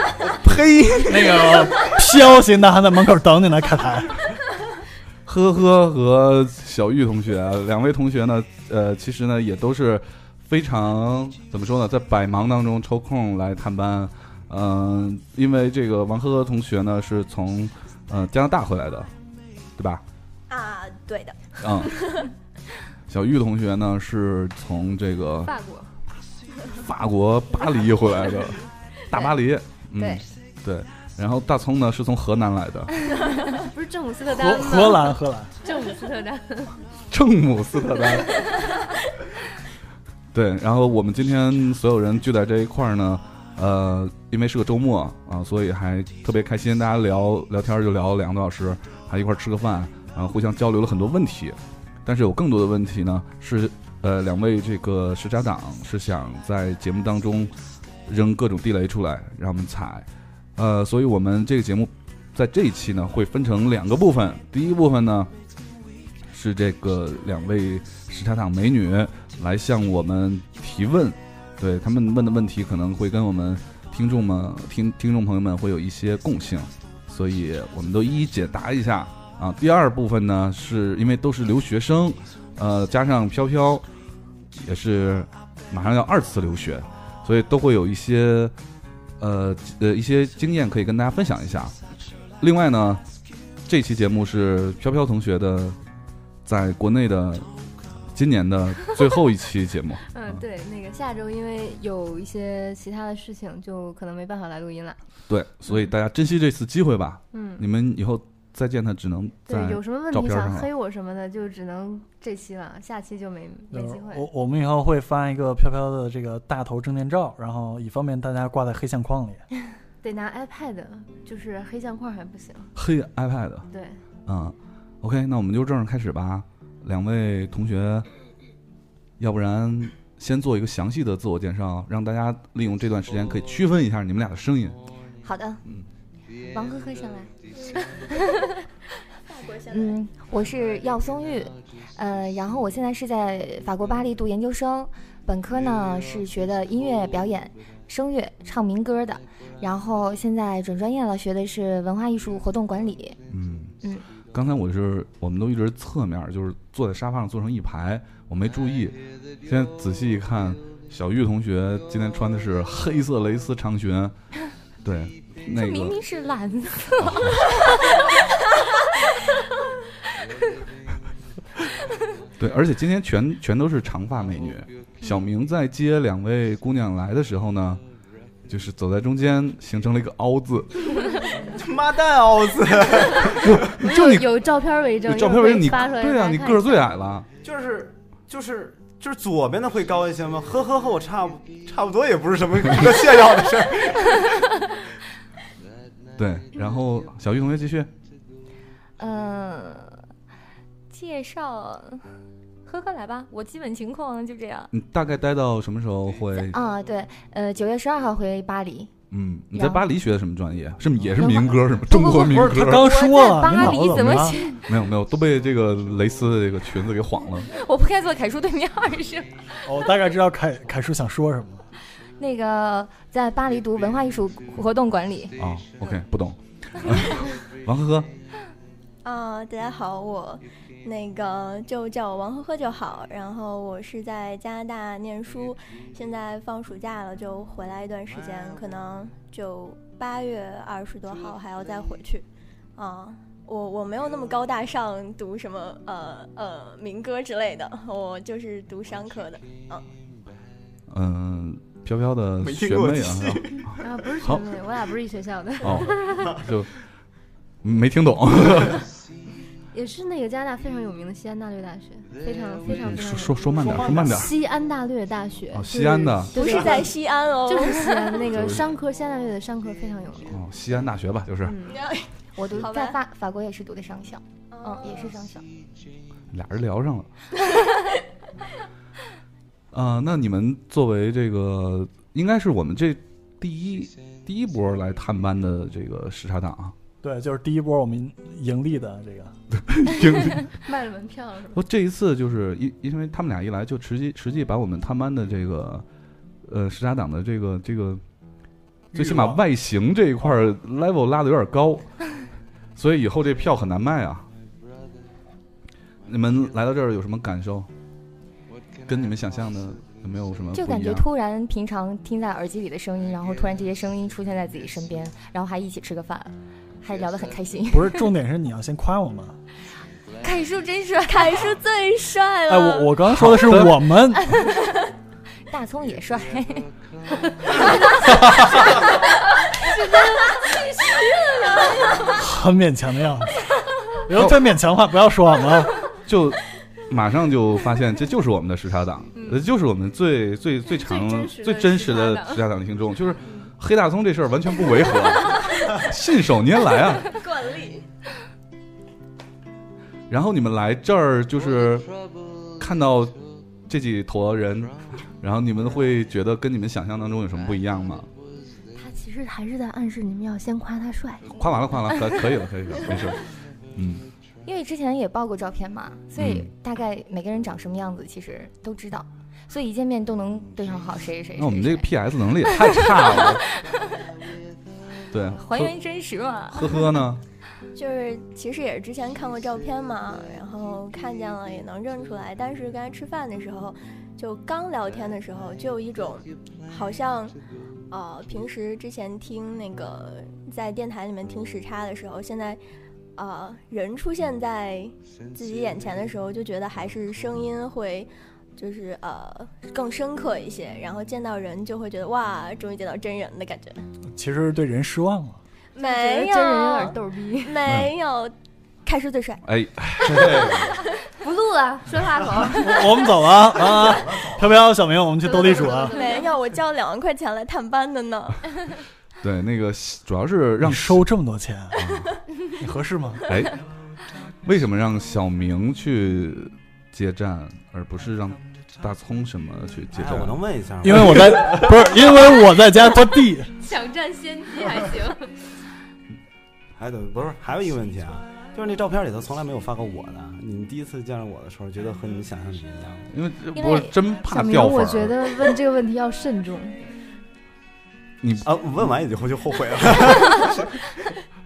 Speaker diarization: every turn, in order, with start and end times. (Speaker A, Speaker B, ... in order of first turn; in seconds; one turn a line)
Speaker A: 0.2-0.6
Speaker B: 0.4-1.9
Speaker C: 1.0-4.2
Speaker B: 5.2-19.1
Speaker B: 19.8-20.0
Speaker D: 20.5-22.3
Speaker B: 21.6-22.0
Speaker B: 23.1-25.5
Speaker E: 25.4-25.9
Speaker B: 26.7-32.9
Speaker E: 30.0-30.2
Speaker E: 33.4-36.8
Speaker C: 34.3-35.5
Speaker B: 37.1-38.6
Speaker B: 40.3-57.5
Speaker B: 58.1-65.3
Speaker B: 66.3-83.8
Speaker B: 84.6-88.5
Speaker B: 89.2-91.7
Speaker B: 92.4-93.0
Speaker B: 93.7-95.8
Speaker B: 96.5-97.5
Speaker B: 98.1-100.4
Speaker E: 100.1-105.0
Speaker B: 105.3-110.7
Speaker E: 107.3-107.7
Speaker E: 109.5-114.3
Speaker C: 113.7-119.5
Speaker E: 120.0-122.7
Speaker B: 122.8-123.7
Speaker E: 123.7-124.0
Speaker B: 124.2-128.1
Speaker B: 129.2-134.8
Speaker F: 135.2-135.6
Speaker F: 136.5-137.3
Speaker D: 139.2-140.0
Speaker F: 139.7-153.2
Speaker B: 153.3-153.7
Speaker B: 154.3-164.1
Speaker B: 164.8-166.0
Speaker F: 165.5-168.0
Speaker B: 167.0-167.5
Speaker B: 172.4-177.8
Speaker B: 178.5-181.1
Speaker A: 181.4-183.8
Speaker B: 183.4-184.3
Speaker E: 183.8-186.8
Speaker B: 185.1-187.3
Speaker A: 187.4-194.4
Speaker B: 196.2-197.9
Speaker F: 199.0-200.1
Speaker F: 200.9-202.1
Speaker F: 202.7-204.7
Speaker B: 204.7-206.6
Speaker F: 206.3-208.9
Speaker B: 209.1-213.0
Speaker F: 209.5-209.9
Speaker F: 211.2-214.6
Speaker C: 211.9-214.5
Speaker B: 214.7-217.5
Speaker F: 217.4-219.3
Speaker C: 219.7-221.6
Speaker F: 222.2-225.4
Speaker B: 225.4-228.1
Speaker D: 229.0-249.8
Speaker B: 250.9-254.4
Speaker A: 252.4-253.8
Speaker E: 253.8-256.3
Speaker B: 255.6-256.7
Speaker A: 256.1-256.4
Speaker B: 257.6-258.8
Speaker E: 259.7-263.4
Speaker B: 262.7-264.3
Speaker A: 263.6-264.2
Speaker E: 263.9-266.9
Speaker B: 265.5-266.4
Speaker D: 266.3-268.2
Speaker E: 267.5-270.4
Speaker B: 268.3-268.7
Speaker B: 270.3-271.6
Speaker E: 271.4-271.8
Speaker D: 271.7-273.0
Speaker F: 272.4-275.5
Speaker D: 274.5-275.2
Speaker B: 276.3-277.1
Speaker B: 279.7-286.8
Speaker C: 287.0-289.4
Speaker B: 289.5-290.5
Speaker E: 290.5-291.6
Speaker B: 291.5-295.9
Speaker B: 296.4-298.0
Speaker B: 298.9-301.9
Speaker C: 299.0-299.3
Speaker B: 302.8-304.3
Speaker B: 306.1-307.7
Speaker B: 308.9-311.1
Speaker F: 310.5-318.1
Speaker C: 317.7-319.4
Speaker F: 320.2-321.5
Speaker D: 321.1-322.9
Speaker C: 322.5-324.3
Speaker B: 323.1-323.8
Speaker F: 325.5-326.7
Speaker B: 328.2-328.4
Speaker E: 329.7-330.5
Speaker D: 330.4-332.1
Speaker C: 332.1-333.4
Speaker C: 334.1-335.8
Speaker B: 334.1-334.5
Speaker B: 335.9-347.1
Speaker E: 339.1-339.4
Speaker E: 340.7-342.5
Speaker D: 347.0-347.9
Speaker B: 350.1-351.9
Speaker B: 352.6-358.1
Speaker E: 358.8-361.3
Speaker B: 361.3-363.2
Speaker B: 363.7-364.1
Speaker F: 364.4-371.9
Speaker B: 366.2-366.5
Speaker B: 371.4-373.4
Speaker F: 372.5-373.8
Speaker B: 375.1-375.7
Speaker F: 375.4-377.0
Speaker B: 376.5-377.2
Speaker D: 377.8-387.4
Speaker D: 387.9-392.6
Speaker D: 393.2-403.9
Speaker C: 404.1-405.4
Speaker D: 405.8-408.3
Speaker E: 405.8-407.6
Speaker B: 407.6-407.9
Speaker D: 408.9-409.4
Speaker B: 409.4-410.8
Speaker A: 410.1-410.7
Speaker E: 411.2-412.9
Speaker C: 412.6-416.0
Speaker A: 413.5-414.6
Speaker E: 415.2-416.3
Speaker D: 415.9-418.6
Speaker B: 419.2-421.0
Speaker C: 420.6-421.9
Speaker B: 421.8-422.1
Speaker C: 422.6-423.3
Speaker B: 423.3-423.6
Speaker B: 424.4-430.4
Speaker A: 429.9-432.0
Speaker C: 430.8-433.5
Speaker E: 433.6-435.3
Speaker A: 436.8-443.1
Speaker B: 443.1-445.4
Speaker E: 443.6-446.8
Speaker B: 448.2-448.5
Speaker A: 448.4-450.8